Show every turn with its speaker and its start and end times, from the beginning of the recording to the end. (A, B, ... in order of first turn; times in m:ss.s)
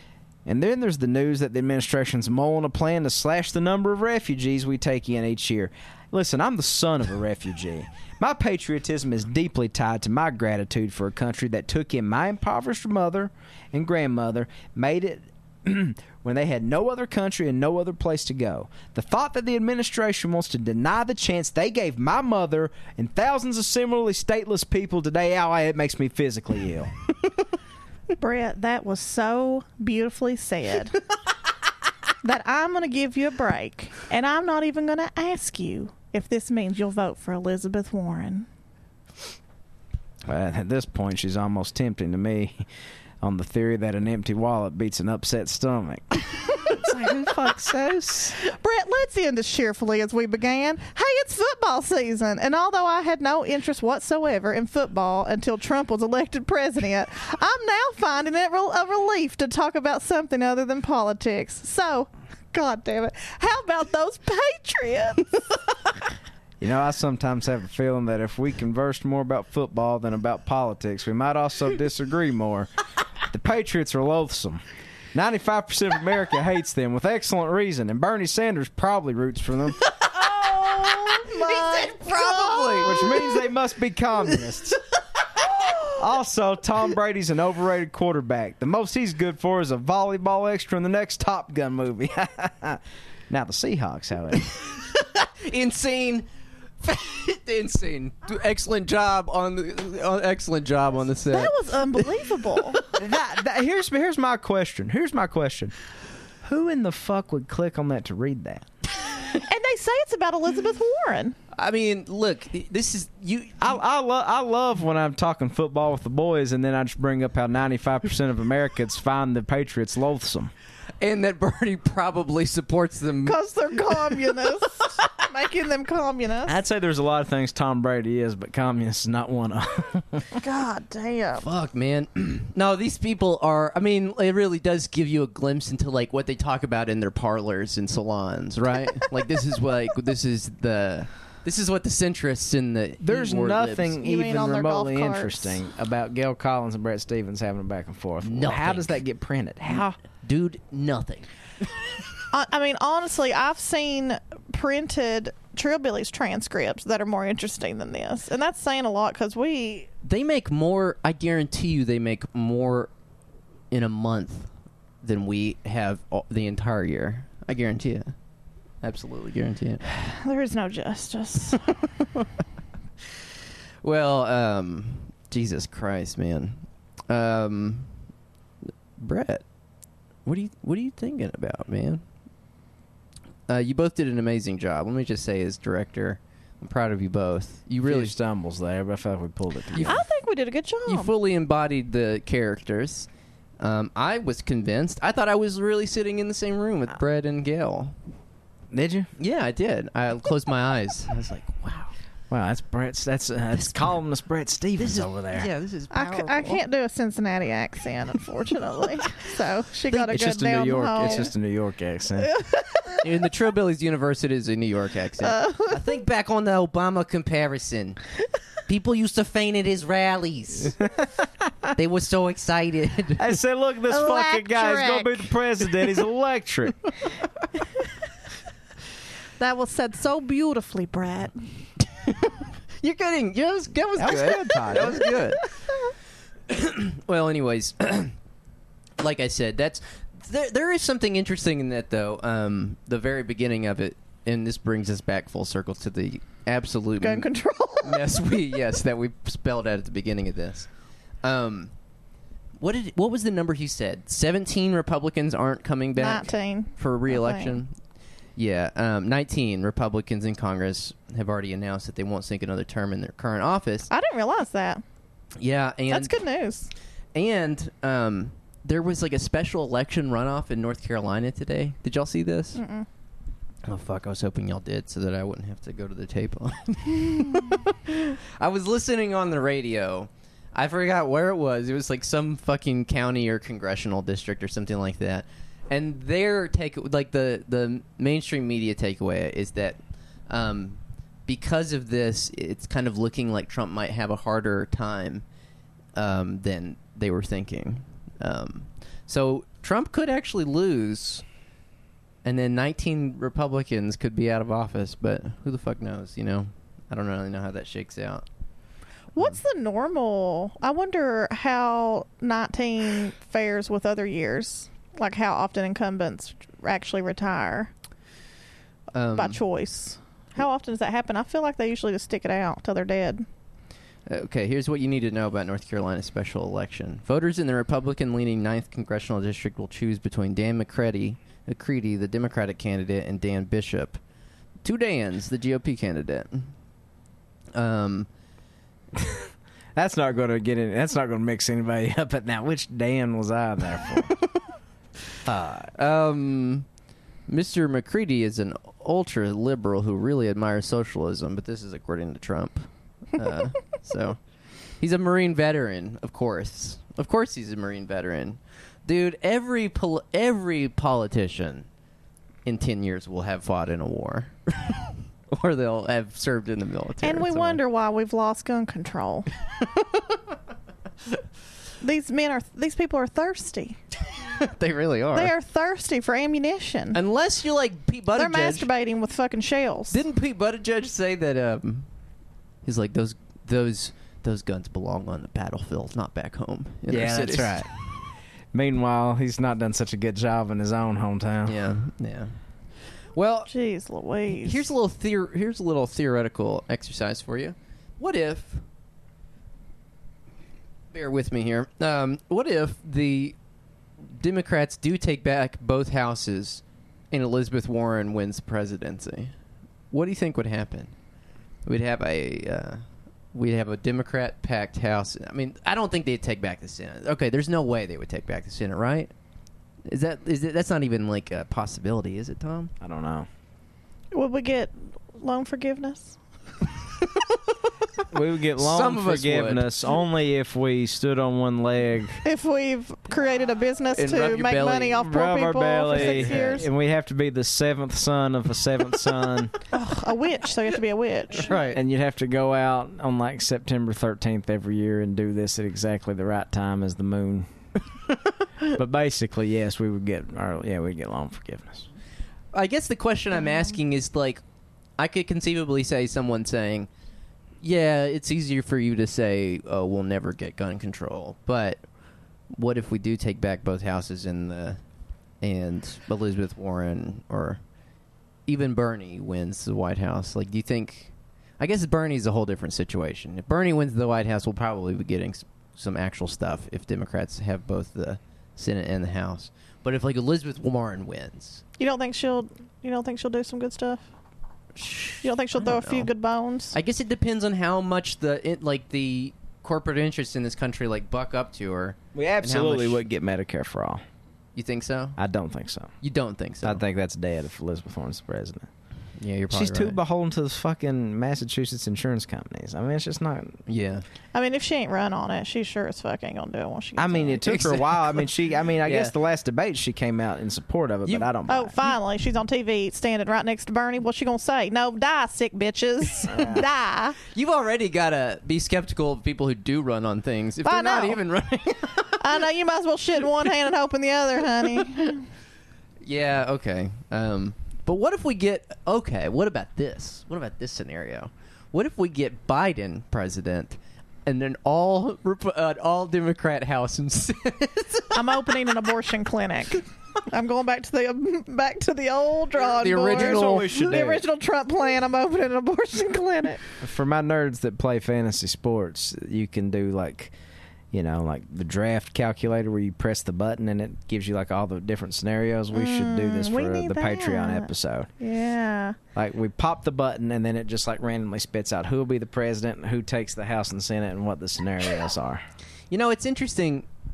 0:00.4-0:26.9 A
0:28.2-0:31.0 B
0:32.2-0:38.5 B
0:40.2-0:42.6 A
0:43.2-0:47.9 A
0:46.7-1:05.4 B
1:06.6-1:12.7 A
1:13.3-1:14.6 A
1:15.1-1:19.9 A
1:20.1-1:23.3 B
1:20.8-1:23.1 C
1:22.8-1:24.8 A
1:26.0-1:34.5 A
1:34.5-1:36.3 C
1:36.8-1:42.2 C
1:41.3-1:42.8 B
1:43.0-1:45.7 A
1:46.4-1:48.6 A
1:49.3-1:51.4 B
1:51.5-1:53.7 C
1:53.6-2:00.5 A
2:01.0-2:03.4 C
2:03.2-2:06.6 B
2:06.4-2:10.4 A
2:10.3-2:11.4 B
2:11.4-2:23.9 C
2:23.0-2:30.0 A
2:24.0-2:25.6 B
2:28.2-2:29.0 C
2:30.2-2:31.2 C
2:32.3-2:39.9 B
2:40.0-2:42.9 C
2:43.7-2:44.5 C
2:45.0-2:48.1 C
2:48.8-2:49.8 C
2:49.8-2:51.7 B
2:52.0-2:52.3 C
2:53.8-2:57.9 C
2:59.0-2:59.4 C
3:00.2-3:02.0 C
3:03.5-3:08.1 C
3:07.8-3:10.0 A
3:09.7-3:10.0 C
3:09.8-3:11.1 B
3:10.9-3:13.1 C
3:13.6-3:17.9 C
3:18.7-3:19.1 A
3:19.2-3:21.9 C
3:22.3-3:25.5 A
3:24.8-3:26.6 C
3:25.9-3:31.3 B
3:29.9-3:32.3 A
3:32.3-3:33.0 B
3:33.0-3:38.0 C
3:35.2-3:35.9 B
3:38.7-3:40.9 C
3:41.7-3:43.2 C
3:43.2-3:46.9 A
3:43.9-3:45.7 B
3:49.4-3:51.4 B
3:52.0-3:55.4 C
3:54.0-3:55.1 A
3:56.5-3:58.1 C
3:59.0-4:07.3 C
4:07.0-4:08.1 B
4:07.8-4:10.7 C
4:11.2-4:11.7 C
4:12.6-4:17.7 C
4:16.0-4:17.6 B
4:18.4-4:23.9 C
4:23.9-4:24.8 B
4:25.4-4:26.2 C
4:25.9-4:26.7 B
4:27.1-4:32.6 C
4:32.6-4:32.9 B
4:33.6-4:55.2 C
4:55.9-5:01.2 C
5:02.2-5:08.2 C
5:09.2-5:17.7 B
5:18.9-5:19.4 C
5:19.2-5:23.2 B
5:24.1-5:34.0 C
5:34.6-5:36.5 C
5:37.5-5:38.1 C
5:38.9-5:44.2 A
5:45.2-5:45.7 A
5:45.7-5:46.7 C
5:47.3-5:54.2 C
5:54.8-6:01.7 C
6:02.4-6:07.6 C
6:07.0-6:09.3 B
6:11.8-6:13.8 B
6:14.2-6:15.3 C
6:15.1-6:17.0 B
6:16.9-6:18.7 C
6:18.1-6:20.0 B
6:19.9-6:21.9 C
6:22.6-6:27.8 C
6:26.9-6:27.7 A
6:28.5-6:31.6 A
6:31.4-6:32.3 C
6:33.2-6:33.5 C
6:33.5-6:34.6 B
6:34.3-6:38.6 C
6:40.9-6:43.3 C
6:44.1-6:49.3 C
6:49.9-6:50.9 C
6:51.6-6:59.1 C
6:59.8-7:02.7 C
7:02.8-7:03.3 A
7:04.1-7:06.2 B
7:08.1-7:12.2 A
7:08.6-7:09.7 C
7:12.2-7:16.6 B
7:13.9-7:15.0 C
7:14.9-7:19.5 A
7:15.9-7:16.6 C
7:19.7-7:21.6 B
7:21.3-7:21.8 C
7:21.7-7:27.5 A
7:28.6-7:31.9 A
7:32.5-7:34.4 C
7:35.0-7:36.9 C
7:37.6-7:41.8 C
7:42.5-7:44.8 C
7:45.4-7:47.6 C
7:48.5-8:01.6 C
8:01.8-8:04.0 B
8:04.7-8:06.1 C
8:05.2-8:06.7 B
8:06.7-8:13.0 C
8:12.1-8:14.0 A
8:14.6-8:15.2 C
8:15.2-8:15.9 A
8:16.0-8:16.8 C
8:16.6-8:18.7 A
8:19.2-8:20.0 C
8:19.5-8:23.6 A
8:23.7-8:24.0 C
8:24.3-8:27.5 B
8:27.0-8:31.7 A
8:27.4-8:28.3 C
8:28.8-8:29.1 C
8:31.5-8:37.2 B
8:36.2-8:36.6 A
8:37.2-8:42.4 C
8:40.6-8:41.2 B
8:42.1-8:45.2 B
8:44.8-8:45.1 C
8:46.0-8:58.7 C
8:58.1-9:06.6 B
9:02.6-9:04.0 C
9:03.1-9:04.2 A
9:06.8-9:10.3 A
9:10.9-9:18.1 A
9:15.7-9:19.0 B
9:19.1-9:25.4 A
9:25.9-9:26.9 C